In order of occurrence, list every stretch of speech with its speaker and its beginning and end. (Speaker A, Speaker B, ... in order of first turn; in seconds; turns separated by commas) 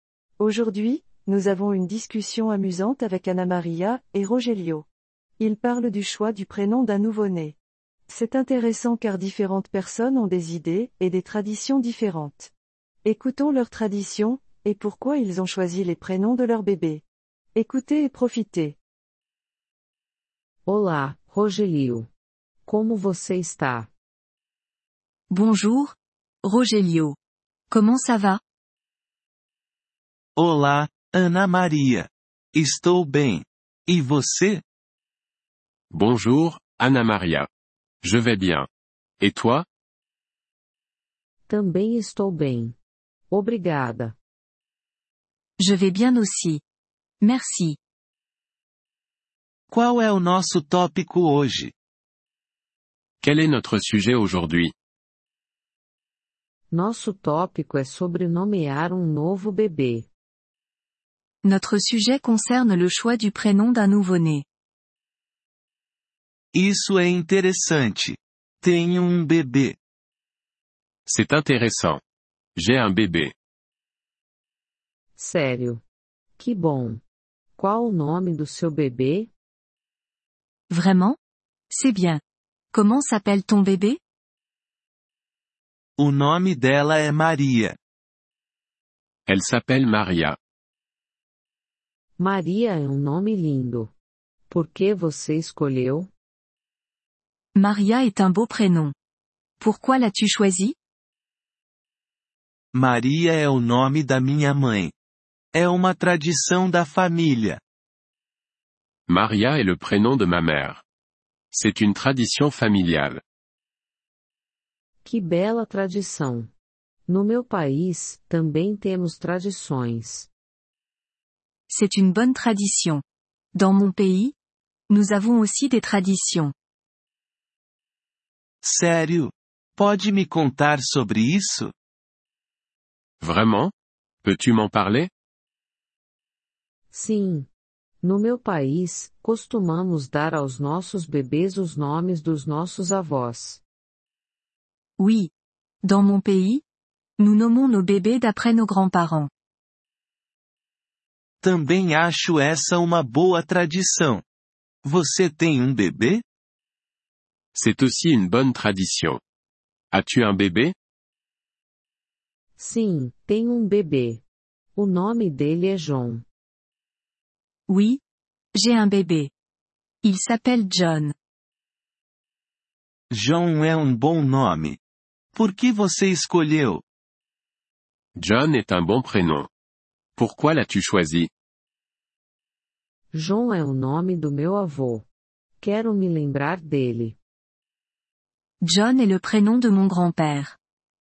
Speaker A: 0.4-4.9, Speaker A: 5.4-12.5, Speaker A: 13.0-17.0, Speaker A: 17.6-18.8, Speaker B: 20.7-22.1, Speaker B: 22.7-23.9, Speaker C: 25.3-27.2, Speaker C: 27.7-28.4, Speaker D: 30.4-34.6, Speaker E: 35.9-37.5, Speaker E: 38.0-38.7, Speaker E: 39.2-39.7, Speaker B: 41.5-42.8, Speaker B: 43.3-44.2, Speaker C: 45.6-46.6, Speaker C: 47.2-47.8, Speaker D: 49.7-51.7, Speaker E: 53.2-54.7, Speaker B: 56.7-60.1, Speaker C: 61.4-64.5, Speaker D: 66.5-69.8, Speaker E: 71.0-72.0, Speaker E: 72.5-73.3, Speaker B: 75.2-75.8, Speaker B: 76.4-77.0, Speaker B: 77.5-79.3, Speaker C: 80.7-81.2, Speaker C: 81.7-82.2, Speaker C: 82.7-84.0, Speaker D: 86.0-87.8, Speaker E: 89.2-90.4, Speaker B: 92.2-93.9, Speaker B: 94.5-96.1, Speaker C: 97.5-98.9, Speaker C: 99.6-100.8, Speaker D: 102.7-104.9, Speaker D: 105.5-107.6, Speaker E: 109.1-110.8, Speaker E: 111.5-113.2, Speaker B: 115.0-116.5, Speaker B: 117.1-120.3, Speaker C: 121.7-123.0, Speaker C: 123.5-124.3, Speaker C: 124.9-126.5, Speaker D: 128.6-131.7, Speaker E: 133.2-135.1, Speaker B: 136.9-137.5, Speaker B: 138.0-143.6, Speaker C: 145.0-145.3, Speaker C: 145.8-146.6, Speaker C: 147.2-149.3, Speaker D: 151.4-154.2, Speaker D: 154.8-156.2, Speaker E: 157.5-159.2, Speaker E: 159.9-160.8, Speaker B: 162.6-164.2, Speaker B: 164.8-166.2, Speaker C: 167.7-168.0, Speaker C: 168.6-169.3, Speaker C: 170.0-171.2, Speaker D: 173.1-174.8, Speaker D: 175.3-176.8, Speaker E: 178.2-179.5, Speaker E: 180.2-181.3, Speaker B: 183.1-185.1, Speaker B: 185.6-187.2, Speaker C: 188.6-190.6